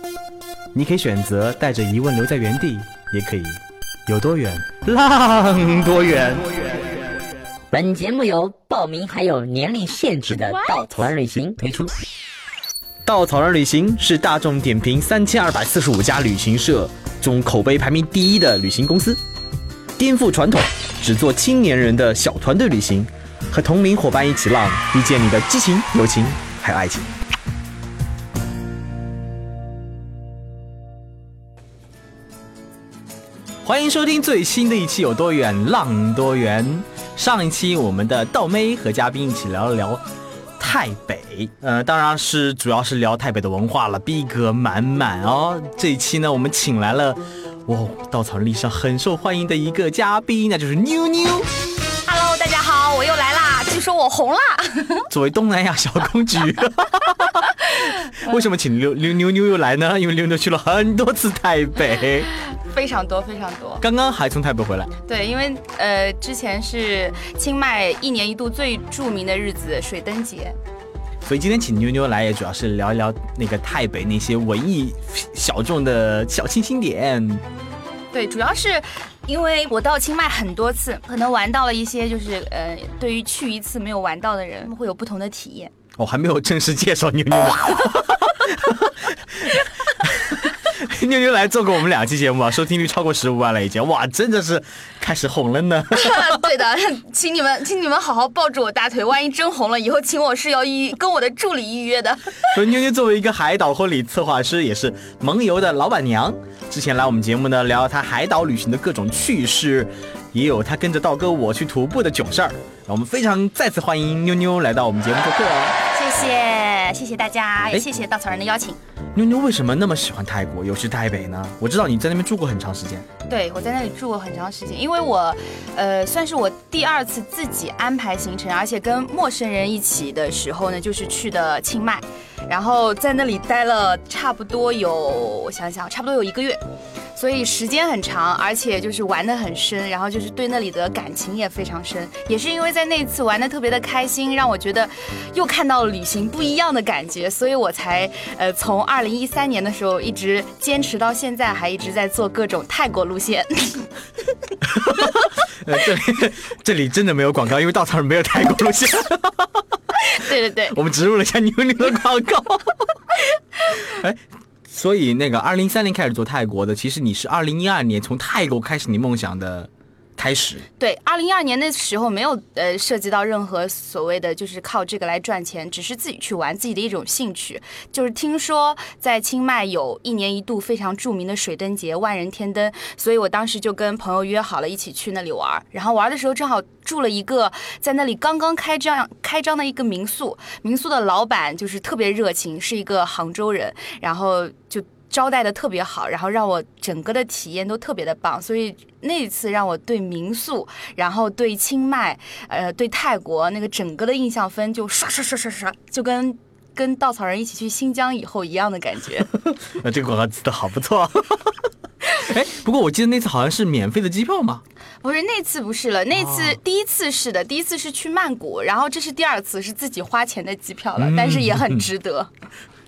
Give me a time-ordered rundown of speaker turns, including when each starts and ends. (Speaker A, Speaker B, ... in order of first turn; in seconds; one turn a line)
Speaker A: 0.7-7.0
Speaker B: 7.7-11.9
Speaker A: 13.1-19.2
Speaker A: 20.0-27.1
Speaker A: 33.6-40.0
Speaker A: 40.6-51.5
Speaker C: 52.0-55.1
Speaker A: 55.1-62.3
Speaker C: 62.7-63.8
Speaker A: 63.8-64.9
Speaker C: 65.1-70.5
Speaker A: 71.2-77.4
Speaker C: 78.1-85.7
Speaker A: 86.0-96.4
Speaker C: 95.9-102.5
Speaker A: 102.5-115.8
Speaker C: 115.9-118.8
Speaker A: 119.2-123.0
Speaker C: 123.3-136.6
Speaker C: 137.2-153.9
Speaker A: 154.7-159.6
Speaker C: 160.0-160.8
Speaker A: 160.7-162.9
Speaker A: 163.8-170.7
Speaker C: 170.8-209.3
Speaker A: 209.7-211.5
Speaker A: 212.2-214.6
Speaker C: 215.0-222.3
Speaker A: 216.2-216.6
Speaker A: 221.0-221.8